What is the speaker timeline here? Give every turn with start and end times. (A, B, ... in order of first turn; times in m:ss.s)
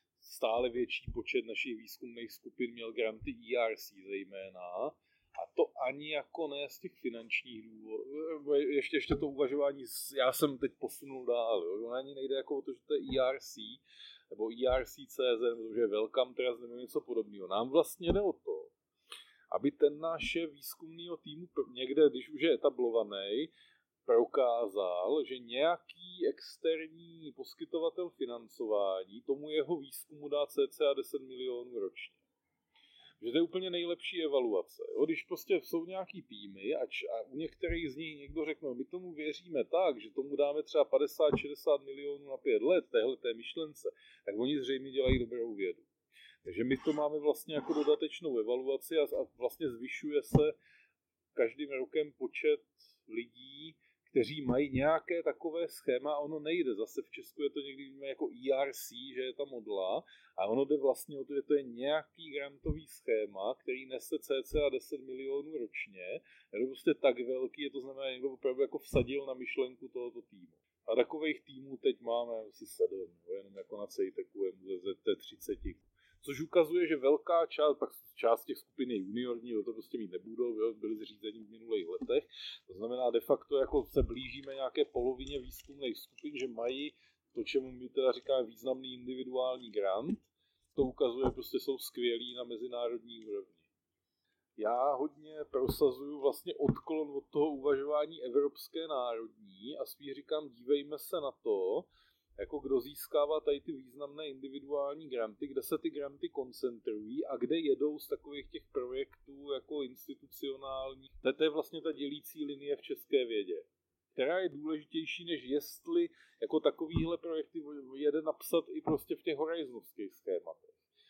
0:00.2-0:18.7 A
0:19.5-0:23.5 A
0:24.0-0:32.2 A
0:33.2-0:45.9 A
0:46.4-0:50.6 A
0:51.3-1:33.6 A
1:34.6-2:00.8 A